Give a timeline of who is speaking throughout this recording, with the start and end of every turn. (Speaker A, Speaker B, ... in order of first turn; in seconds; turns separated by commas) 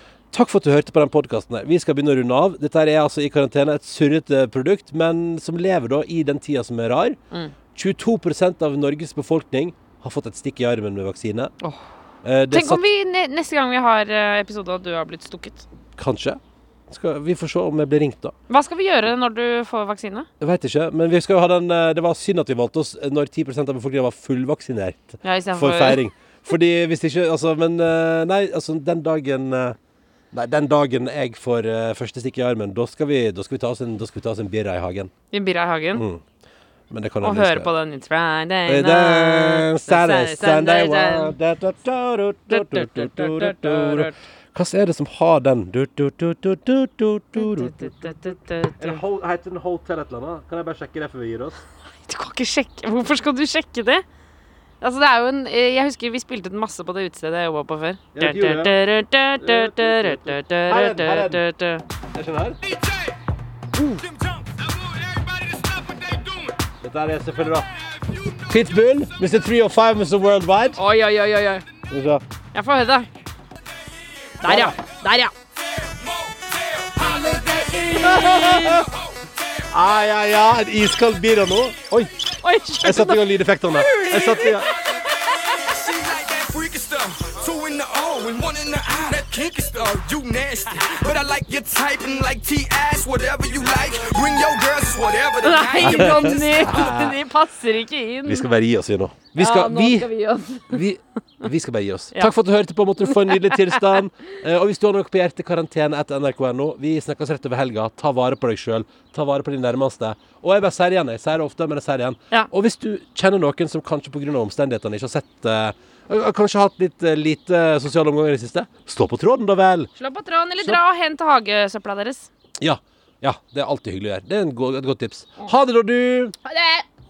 Speaker A: 0.3-7.2, Speaker A: 7.7-11.5, Speaker A: 12.2-12.8, Speaker B: 12.5-15.7, Speaker A: 16.0-18.3, Speaker B: 18.5-20.3, Speaker A: 20.4-29.8, Speaker B: 25.2-26.0, Speaker A: 30.3-35.1, Speaker B: 35.3-36.0, Speaker A: 36.0-36.2, Speaker A: 36.9-37.7, Speaker B: 37.2-41.4, Speaker A: 38.7-51.6, Speaker B: 42.5-44.2, Speaker B: 47.4-49.0, Speaker B: 52.0-54.0, Speaker B: 54.8-61.8, Speaker A: 58.1-58.8, Speaker A: 59.4-61.4, Speaker A: 62.1-62.6, Speaker B: 63.8-64.1, Speaker A: 66.8-67.7, Speaker A: 68.5-70.8, Speaker B: 70.8-71.7, Speaker A: 71.9-72.2, Speaker B: 72.5-73.1, Speaker B: 74.4-75.3, Speaker A: 74.5-74.8, Speaker C: 75.8-77.8, Speaker B: 77.0-78.8, Speaker A: 78.0-78.8, Speaker A: 79.7-82.1, Speaker B: 82.4-85.6, Speaker A: 82.8-84.7, Speaker C: 85.3-96.8, Speaker B: 95.4-98.5, Speaker A: 95.8-97.2, Speaker A: 98.2-100.1, Speaker B: 99.4-100.8, Speaker A: 100.7-119.9, Speaker B: 103.1-103.8, Speaker B: 120.0-122.3, Speaker A: 122.6-126.3, Speaker B: 126.5-126.9